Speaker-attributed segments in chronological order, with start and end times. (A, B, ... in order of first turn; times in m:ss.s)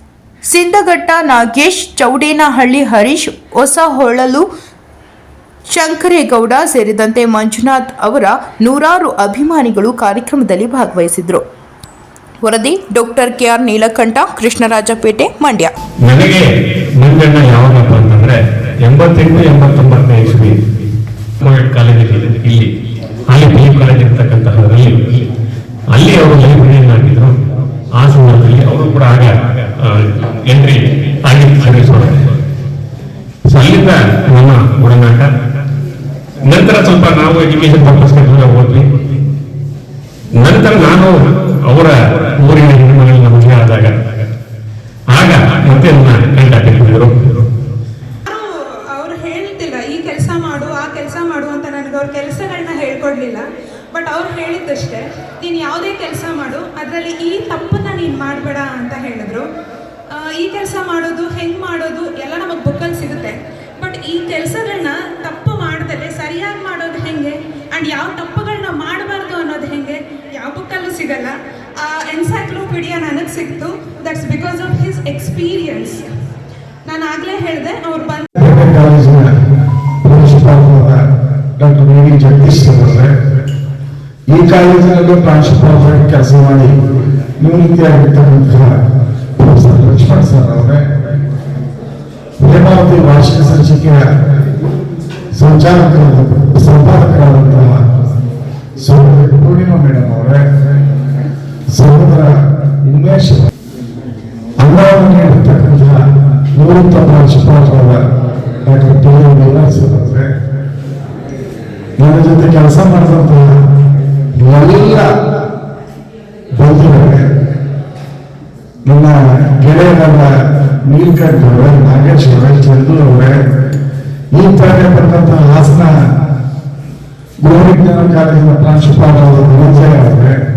0:00.4-0:04.5 A
0:05.7-0:11.4 A
0:12.4-0:15.7 A
0:16.0-0:16.4 B
0:17.0-0:20.5 B
0:17.1-0:17.8 C
0:19.0-0:19.6 C
0:21.4-0:22.6 B
0:23.3-0:24.9 B
0:23.3-0:24.8 C
0:25.9-0:27.3 B
0:28.0-0:32.1 B
0:33.5-0:35.3 B
0:36.4-0:38.9 B
0:40.4-0:41.1 B
0:41.7-0:43.8 B
0:45.1-0:47.3 B
0:48.2-0:59.4 C
1:00.1-1:16.1 C
1:16.8-1:18.3 C
1:18.4-1:19.3 D
1:20.0-1:21.0 D
1:21.6-1:23.1 D
1:24.3-1:26.7 D
1:27.4-1:28.8 D
1:29.4-1:30.8 D
1:32.4-1:34.0 D
1:35.3-1:37.8 D
1:38.8-1:40.4 D
1:41.7-1:42.3 D
1:42.8-1:43.5 D
1:44.6-1:46.0 D
1:46.5-1:48.0 D
1:48.6-1:50.3 D
1:52.0-1:53.5 D
1:54.4-1:55.1 D
1:56.6-1:57.3 D
1:58.8-2:00.3 D
2:00.8-2:03.4 D
2:04.3-2:05.9 D
2:07.4-2:10.3 D